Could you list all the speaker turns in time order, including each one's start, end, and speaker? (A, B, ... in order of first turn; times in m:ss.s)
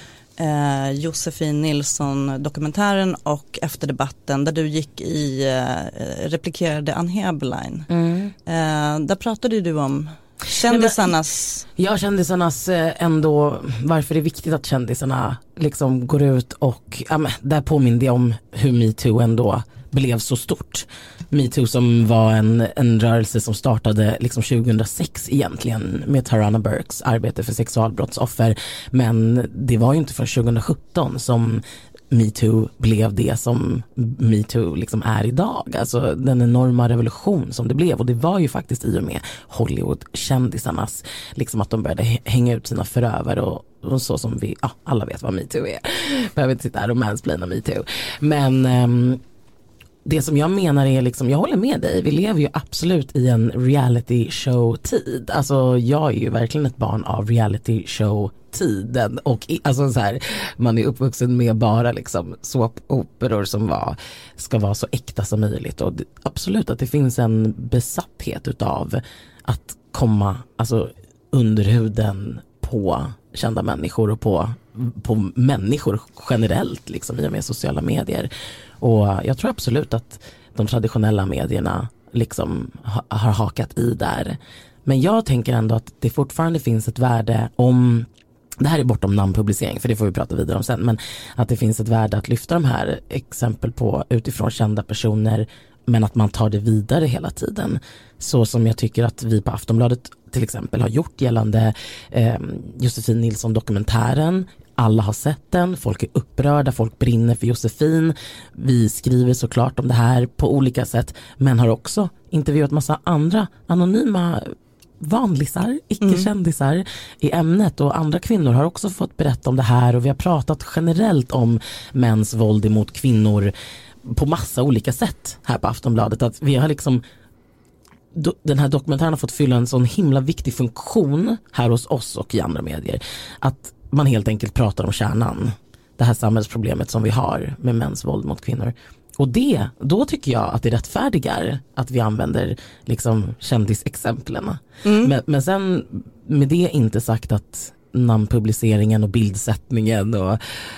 0:00.4-0:07.9 A
0:07.9-0:08.3 B
0:08.5-0:11.6 A
0:10.6-0:11.1 B
0:11.8-0:49.2 B
0:50.0-1:28.1 B
1:28.6-2:03.5 B
1:56.0-1:56.3 A
2:04.0-2:07.0 B
2:08.1-2:30.4 B
2:24.8-2:25.1 A